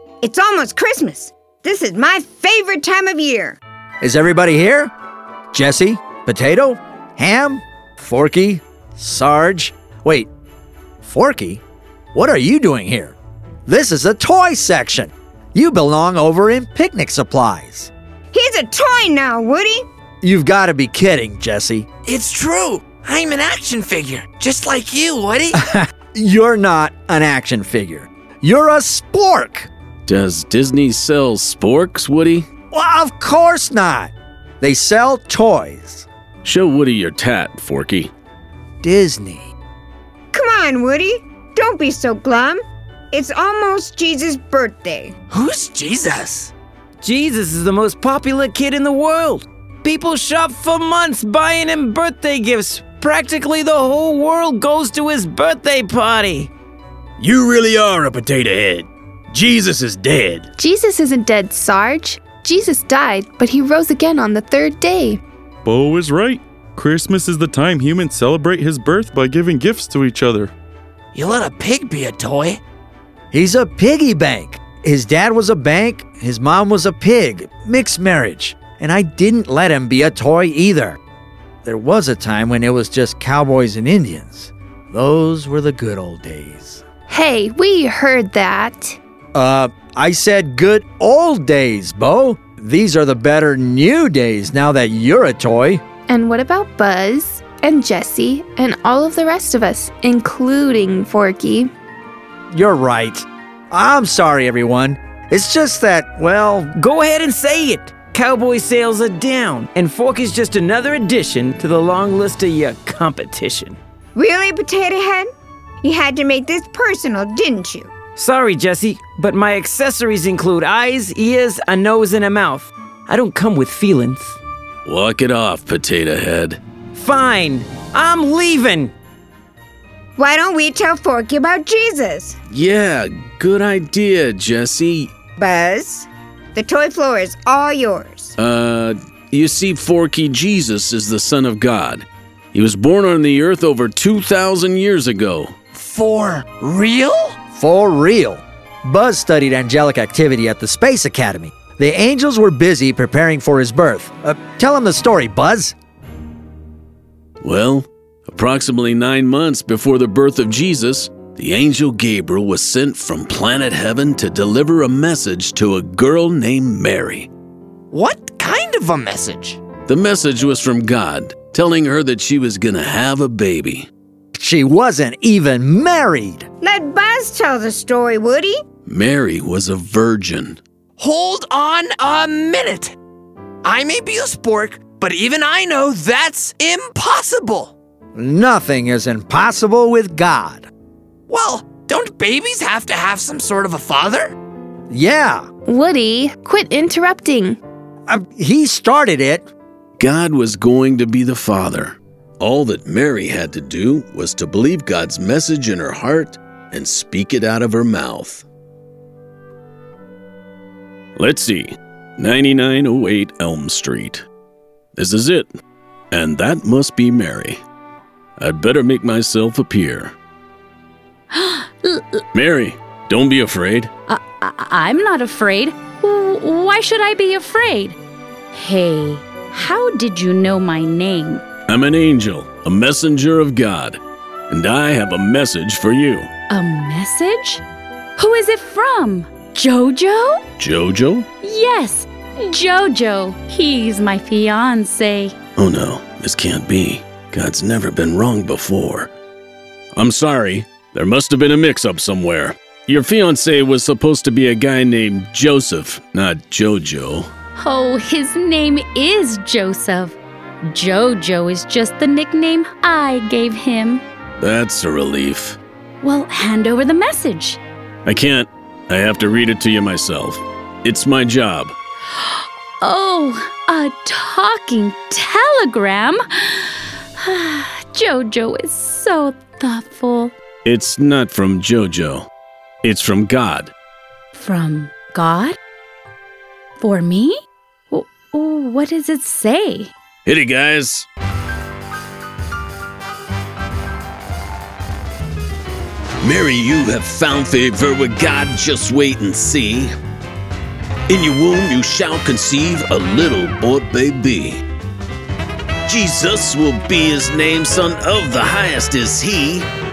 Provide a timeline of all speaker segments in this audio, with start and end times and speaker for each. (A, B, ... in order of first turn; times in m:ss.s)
0:00.2-0:03.6 A
0:04.0-0:04.9 B
0:05.5-0:10.3 B
0:11.0-0:11.6 B
0:12.1-0:13.2 B
0:13.7-0:17.9 B
0:18.3-0:19.8 A
0:20.2-0:21.9 B
0:22.0-0:25.6 C
0:25.5-0:29.7 B
0:30.0-0:32.5 D
0:32.7-0:36.0 B
0:36.4-0:38.1 D
0:38.8-0:39.5 B
0:40.3-0:42.6 A
0:43.1-0:45.1 A
0:45.3-0:46.5 C
0:47.0-0:56.5 E
0:57.2-1:00.5 F
1:00.6-1:05.2 G
1:05.6-1:10.5 H
1:11.1-1:12.6 C
1:13.3-1:21.0 B
1:21.6-1:26.8 B
1:27.1-1:29.0 G
1:29.3-1:35.8 B
1:36.1-1:41.7 G
1:42.5-1:46.7 B
1:46.8-1:53.8 E
1:54.2-1:55.3 A
1:55.8-1:57.9 A
1:58.2-2:04.4 E
2:04.8-2:06.6 D
2:06.9-2:08.9 E
2:10.2-2:12.4 A
2:12.5-2:15.1 D
2:15.4-2:18.3 A
2:18.4-2:25.5 D
2:25.7-2:27.4 C
2:27.5-2:35.7 B
2:37.4-2:47.3 D
2:47.9-2:49.6 C
2:49.9-2:53.9 D
2:54.3-2:56.5 B
2:56.6-2:58.6 A
2:58.8-3:00.6 D
3:01.0-3:03.0 C
3:03.6-3:07.7 C
3:08.1-3:10.7 B
3:11.3-3:14.3 C
3:14.9-3:15.5 B
3:15.6-3:17.6 G
3:18.1-3:19.5 B
3:20.0-3:28.4 D
3:31.2-3:34.2 D
3:35.0-3:35.5 D
3:36.1-3:37.6 D
3:38.4-3:40.1 D
3:41.3-3:42.2 I
3:42.3-3:43.9 D
3:44.1-3:48.0 I
3:48.5-3:51.4 I
3:51.7-3:54.0 D
3:54.5-3:56.3 D
3:56.5-3:57.6 I
3:58.2-4:00.4 I
4:00.6-4:01.3 D
4:01.4-4:05.3 I
4:05.6-4:09.1 D
4:10.0-4:17.3 D
4:17.6-4:24.0 I
4:24.4-4:25.6 D
4:26.0-4:27.6 I
4:28.0-4:31.7 D
4:32.1-4:40.4 I
4:40.6-4:42.3 D
4:42.8-4:43.7 D
4:44.3-4:45.6 I
4:46.8-4:47.4 I
4:47.9-4:49.9 I
4:50.2-4:51.0 D
4:56.2-4:59.9 D
5:01.1-5:04.6 D
5:05.8-5:09.7 D